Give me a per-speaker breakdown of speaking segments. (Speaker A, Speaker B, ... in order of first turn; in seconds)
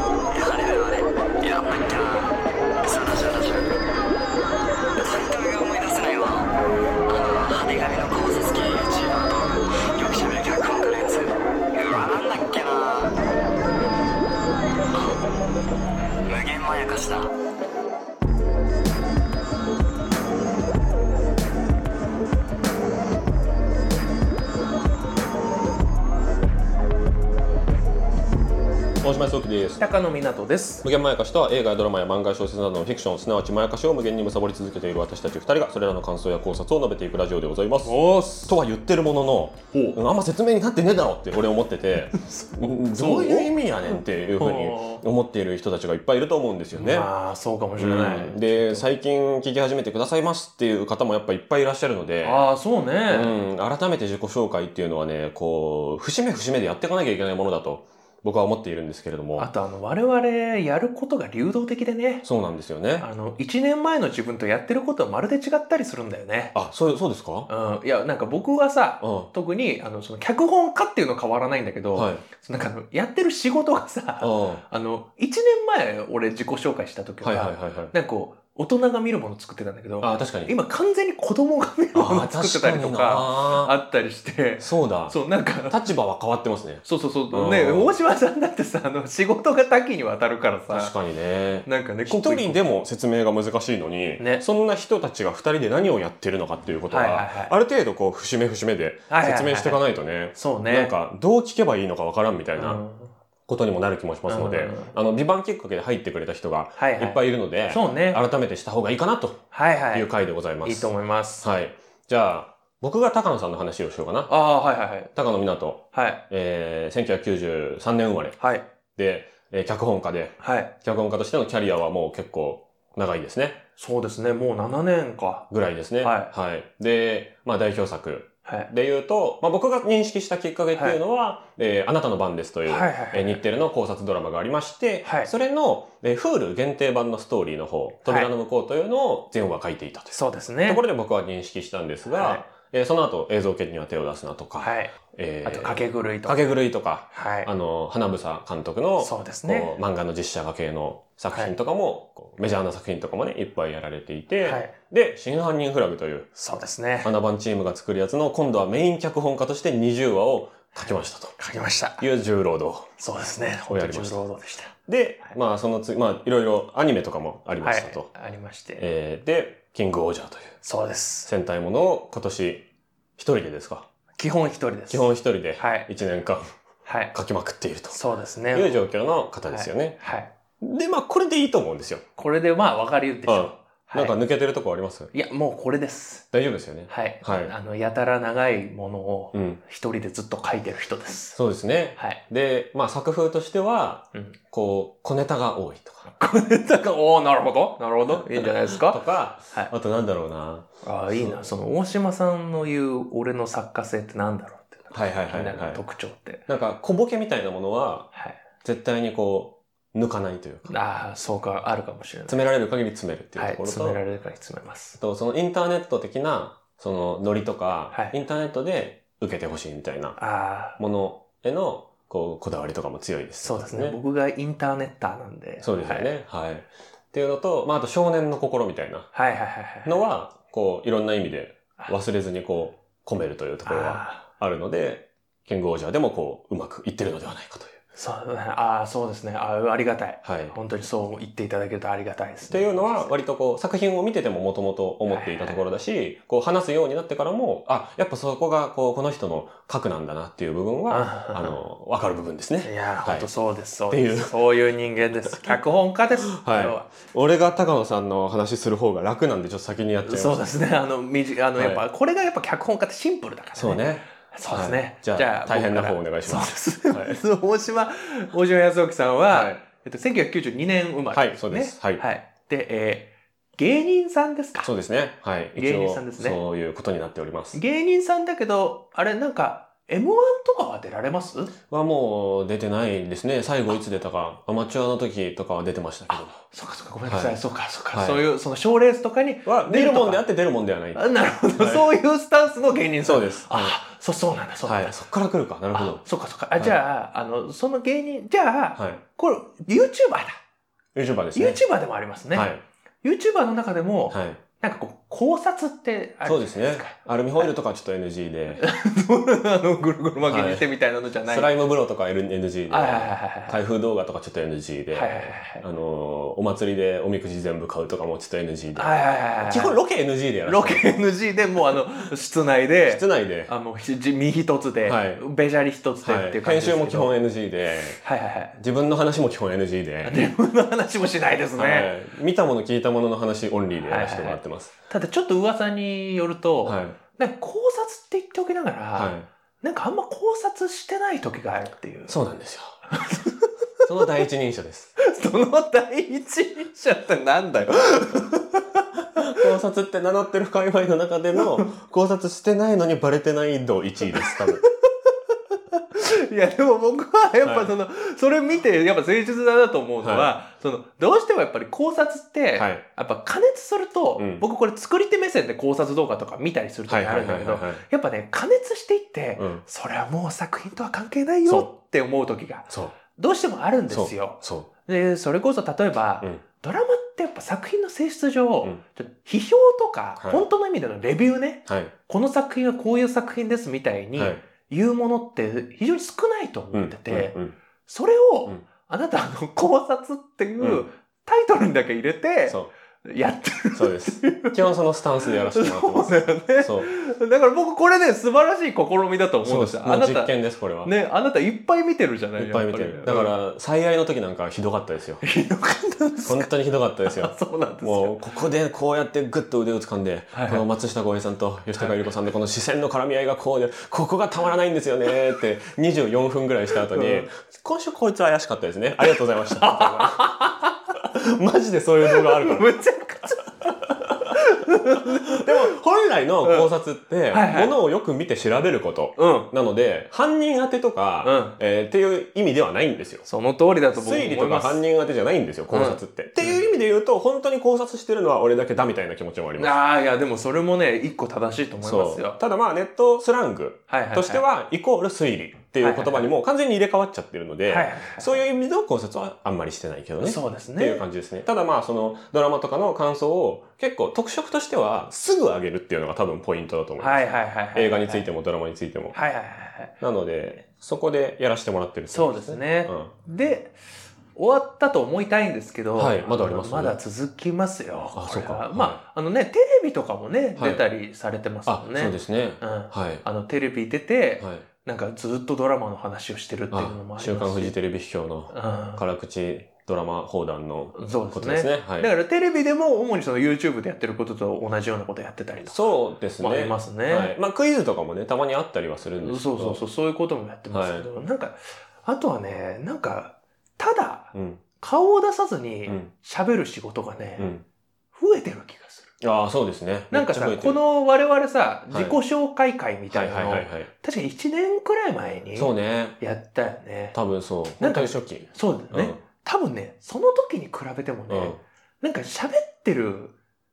Speaker A: 0.3-3.7, 5.0-6.5, 7.1-13.1, 16.2-17.3
Speaker B: 29.0-29.8, 30.8-47.1, 47.8-52.4, 53.1-59.5, 62.2-63.0, 66.5-67.5, 69.0-69.3, 71.9-72.2, 74.2-74.6, 77.2-77.9, 80.0-80.5, 81.9-83.7, 84.6-87.9, 90.7-102.8, 103.5-114.3, 115.1-118.4, 119.0-123.6, 125.5-156.3, 157.0-161.3, 162.0-162.9, 163.7-164.2, 164.9-168.1, 168.8-170.6, 171.2-172.6, 173.2-173.9, 174.9-176.5, 177.1-178.0, 178.5-180.0, 180.6-182.0, 183.2-185.1, 186.3-187.5, 189.3-189.6, 191.3-196.1, 198.2-201.5, 204.9-205.8, 206.5-208.1, 208.6-210.7, 212.3-214.0, 215.0-220.2, 220.8-224.0, 225.6-229.1, 229.8-237.8, 240.2-240.5, 242.5-253.3, 253.9-254.4, 256.3-260.4, 261.6-261.8, 263.6-267.2, 269.3-269.6, 271.1-272.0, 274.6-277.6, 281.7-286.4, 287.1-287.4, 287.9-288.2, 289.4-291.9, 293.1-293.8, 294.6-296.0, 298.8-299.0, 300.9-301.6, 302.3-302.6, 304.1-304.4, 306.2-308.6, 310.3-310.6, 311.3-320.9, 322.9-323.5, 324.8-325.2, 326.0-328.0, 328.6-330.3, 331.6-334.7, 336.6-337.0, 338.9-339.3, 342.1-342.8, 343.8-345.0, 349.2-354.6, 357.4-357.7, 360.0-360.3, 362.6-362.8, 364.2-364.4, 366.9-367.8, 369.4-369.6, 371.4-371.7, 372.7-373.0, 373.9-374.7, 381.7-381.9, 384.1-384.4, 386.7-387.6, 390.6-390.9, 393.7-396.9, 399.4-400.9, 402.4-405.2, 406.2-420.4, 421.0-422.7, 425.3-433.2, 433.9-439.8, 441.8-459.1, 460.0-463.1, 466.0-466.9, 468.1-469.0, 470.6-470.8, 471.6-473.2, 474.4-474.6, 476.7-482.1, 485.6-489.8, 490.7-491.1, 494.3-494.6, 497.4-497.6, 499.2-500.8, 501.9-502.2, 503.1-503.9, 505.6-506.2, 507.1-509.2, 511.3-511.6
Speaker C: 29.8-30.8, 37.8-38.5, 39.7-40.0, 42.2-43.5, 44.4-45.0, 46.7-48.8, 52.2-53.3, 59.4-62.2, 63.0-66.5, 67.5-85.8, 86.8-90.9, 91.7-92.6, 94.2-94.4, 96.9-97.5, 99.1-99.8, 100.3-100.9, 102.6-103.1, 104.3-104.9, 106.8-108.2, 109.5-110.1, 110.6-111.5, 114.3-115.1, 115.9-116.2, 118.4-118.7, 120.4-120.7, 123.8-125.5, 126.0-126.3, 132.7-133.4, 135.0-135.3, 140.1-140.8, 142.1-142.4, 144.6-146.4, 147.1-147.5, 149.0-149.7, 154.4-154.7, 156.4-157.1, 161.4-162.0, 163.0-164.7, 167.6-168.8, 170.6-171.3, 174.2-175.9, 176.8-177.1, 177.9-178.8, 179.5-180.3, 182.2-184.1, 185.1-186.2, 186.9-191.4, 196.1-199.0, 200.8-206.4, 210.7-212.5, 213.3-215.0, 220.2-220.8, 223.4-226.1, 229.1-229.9, 233.6-234.2, 237.9-243.1, 245.1-245.6, 250.9-251.6, 252.6-256.9, 260.0-274.7, 275.6-276.4, 277.5-281.5, 286.4-290.2, 290.9-294.9, 295.7-300.4, 301.3-302.5, 303.0-307.5, 308.6-311.5, 312.7-313.6, 314.9-315.6, 318.7-319.8, 320.4-327.1, 328.0-328.6, 330.0-331.9, 333.8-342.1, 342.9-344.0, 345.0-349.5, 354.2-387.3, 387.9-394.6, 395.2-403.3, 405.2-406.5, 407.0-408.2, 410.3-410.6, 411.8-412.0, 416.9-417.3, 419.0-420.7, 422.1-423.8, 424.3-425.7, 427.3-427.7, 429.1-429.5, 431.2-431.6, 433.2-434.8, 435.7-436.6, 439.6-442.4, 443.9-444.4, 445.8-446.2, 447.7-448.4, 450.2-451.0, 457.0-458.2, 459.1-459.9, 462.1-463.8, 464.3-477.7, 478.5-479.0, 480.9-485.8, 486.4-487.3, 489.2-497.5, 498.1-499.1, 500.1-507.1, 507.8-513.3